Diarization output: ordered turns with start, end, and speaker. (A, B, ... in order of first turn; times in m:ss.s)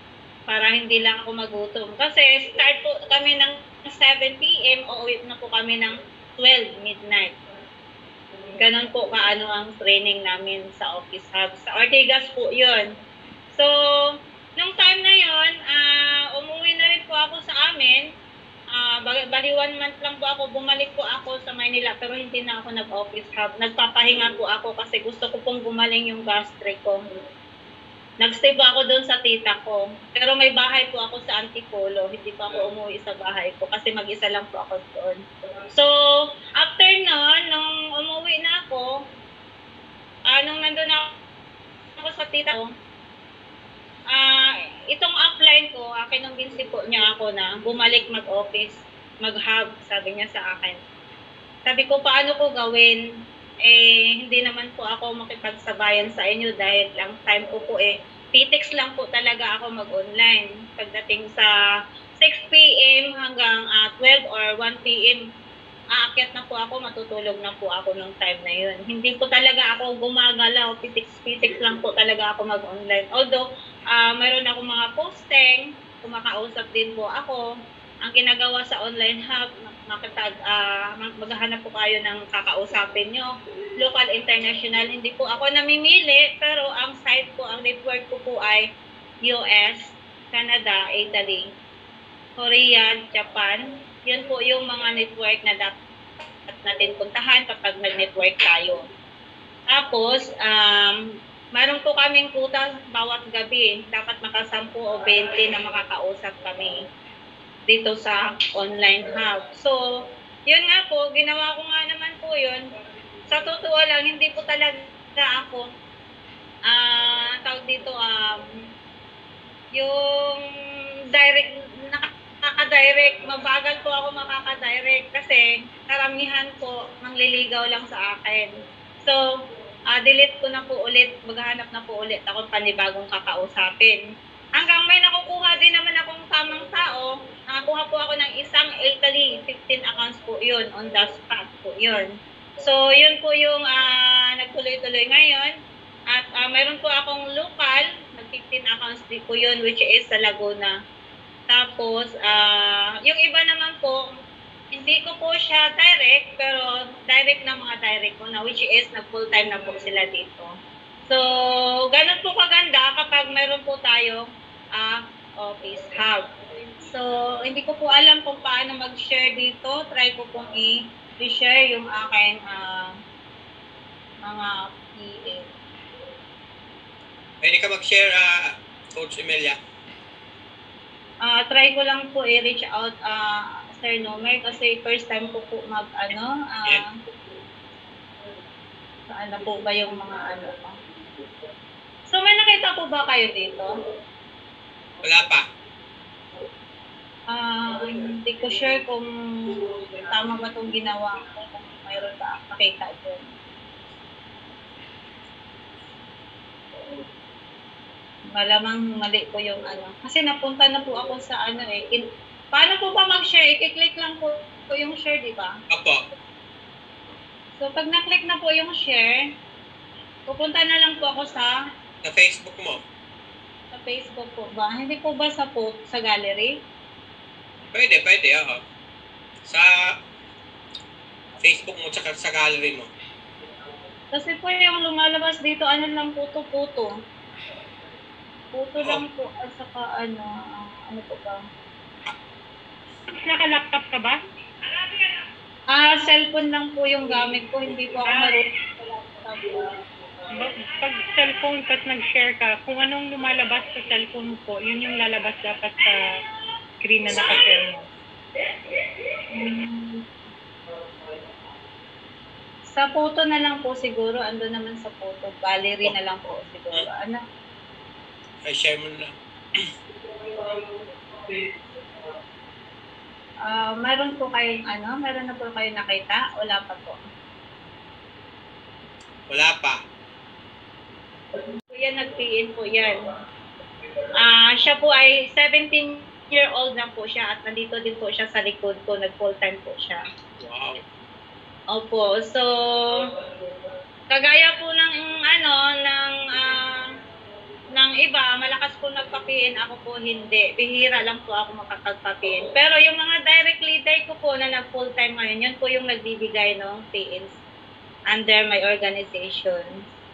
0:00.5-0:07.4 A
0:08.6-0:12.9 A
0:13.5-0:18.1 A
0:18.8-0:27.0 A
0:28.2-0:38.9 A
0:40.3-0:41.2 A
0:42.0-0:42.7 A
0:44.1-0:50.8 A
0:51.7-0:53.0 A
0:53.6-1:01.5 A
1:02.2-1:05.2 A
1:06.0-1:17.4 A
1:18.0-1:28.6 A
1:29.2-1:31.4 A
1:32.4-1:35.7 A
1:36.5-1:38.8 A
1:39.7-1:41.0 A
1:41.6-1:46.8 A
1:47.7-1:49.8 A
1:50.5-1:52.6 A
1:53.3-1:55.7 A
1:56.7-1:58.5 A
1:59.8-2:00.5 A
2:01.1-2:08.5 A
2:09.9-2:14.0 A
2:14.6-2:25.5 A
2:26.1-2:30.8 A
2:31.5-2:34.1 A
2:34.7-2:40.5 A
2:41.1-2:46.2 A
2:46.9-2:53.0 A
2:54.2-2:55.5 A
2:57.4-2:59.6 B
3:01.2-3:06.9 A
3:09.1-3:10.8 A
3:12.1-3:13.7 A
3:15.0-3:15.5 B
3:17.3-3:23.3 A
3:28.4-3:35.6 A
3:35.7-3:36.0 B
3:37.6-3:39.3 A
3:40.3-3:41.6 A
3:42.0-3:42.8 B
3:43.7-3:46.6 A
3:47.7-3:48.6 B
3:49.5-3:50.0 B
3:51.4-3:52.9 B
3:54.1-3:56.9 A
3:58.5-4:01.4 A
4:03.1-4:04.2 C
4:05.7-4:09.7 A
4:08.0-4:08.3 C
4:10.3-4:16.0 C
4:16.8-4:17.8 C
4:17.1-4:17.4 A
4:17.2-4:17.4 B
4:19.3-4:20.0 A
4:22.7-4:27.2 A
4:28.4-4:29.7 B
4:33.5-4:37.0 A
4:39.3-4:39.8 B
4:41.6-4:43.0 A
4:44.2-4:50.0 A
4:50.4-4:50.8 B
4:51.7-4:53.1 A
4:54.1-4:56.9 A
4:57.8-5:07.4 A
5:08.1-5:09.8 A